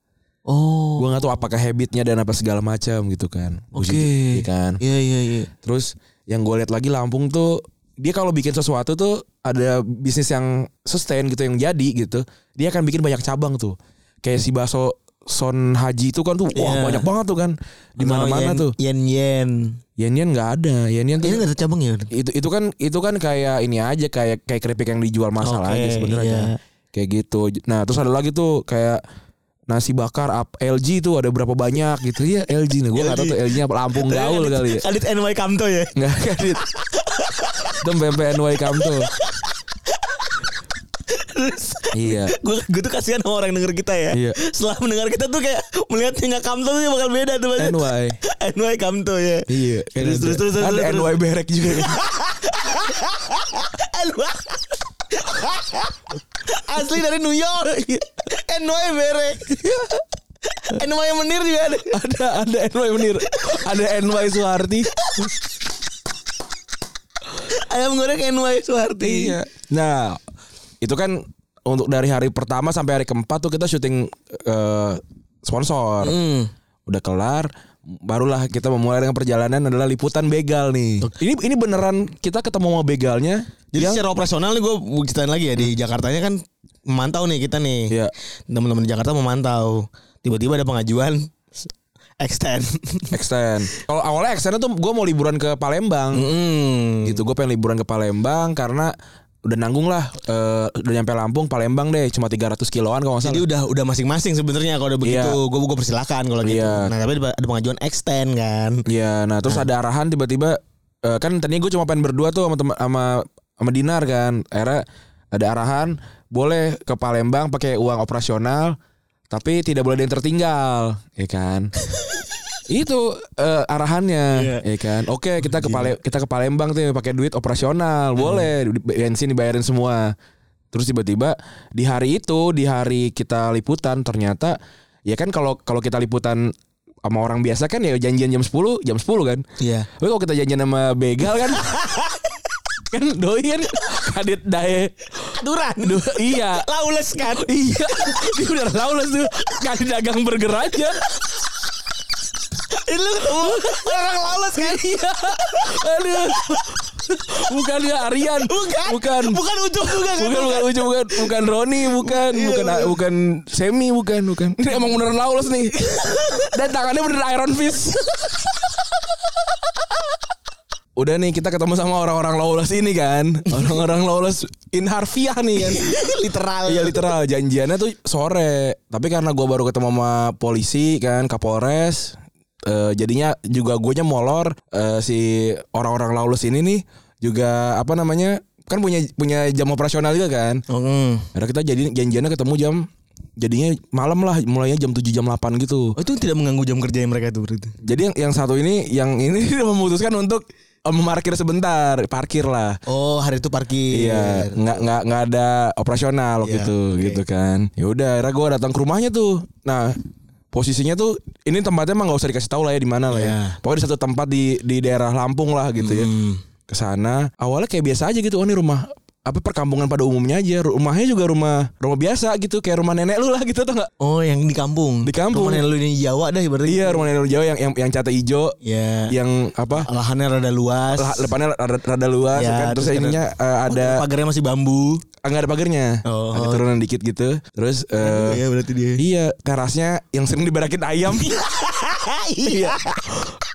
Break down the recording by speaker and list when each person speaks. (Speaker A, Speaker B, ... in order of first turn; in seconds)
Speaker A: 0.5-1.1, 3.7-5.5, 16.5-17.1, 18.0-19.8, 21.2-22.1, 25.4-26.6, 32.9-36.0, 36.6-37.8, 38.7-40.4, 41.1-62.0, 63.3-63.6, 65.0-65.3, 67.3-69.4, 76.0-76.5, 83.7-87.9, 88.5-91.3, 92.2-93.2, 96.1-97.2, 103.2-108.8, 124.3-124.6, 125.4-126.0, 128.2-128.5, 139.6-139.9, 141.5-142.3, 145.3-148.3, 152.7-156.6, 158.4-161.3, 161.9-163.0, 165.8-166.5, 175.7-177.1, 190.7-191.3, 196.0-197.7, 202.9-204.8, 206.4-207.2, 213.1-213.6, 215.8-216.4, 224.0-227.1, 228.6-229.1, 229.7-231.3, 232.3-235.1, 236.1-236.7, 238.0-239.0, 241.1-243.3
Speaker B: 1.0-4.8, 5.6-18.7, 20.0-21.4, 22.1-29.0, 29.7-34.8, 35.9-36.6, 37.8-39.1, 41.9-42.3, 44.1-44.4, 47.6-48.2, 49.5-52.0, 61.9-64.9, 69.0-70.2, 70.8-76.2, 76.9-84.0, 93.1-96.2, 97.0-98.9, 99.4-103.5, 105.0-105.4, 106.4-106.9, 108.9-118.8, 119.3-121.7, 122.7-130.1, 130.7-136.5, 137.0-139.4, 140.0-141.8, 142.9-146.7, 147.2-151.0, 153.4-159.4, 159.9-168.3, 170.9-176.1, 176.7-190.6, 191.3-192.9, 193.4-195.9, 197.8-202.8, 203.9-210.0, 210.5-216.1, 216.7-223.9, 225.0-225.6, 226.7-228.6, 229.1-229.9, 230.9-234.0, 235.2-238.4, 239.0-241.4, 242.4-243.2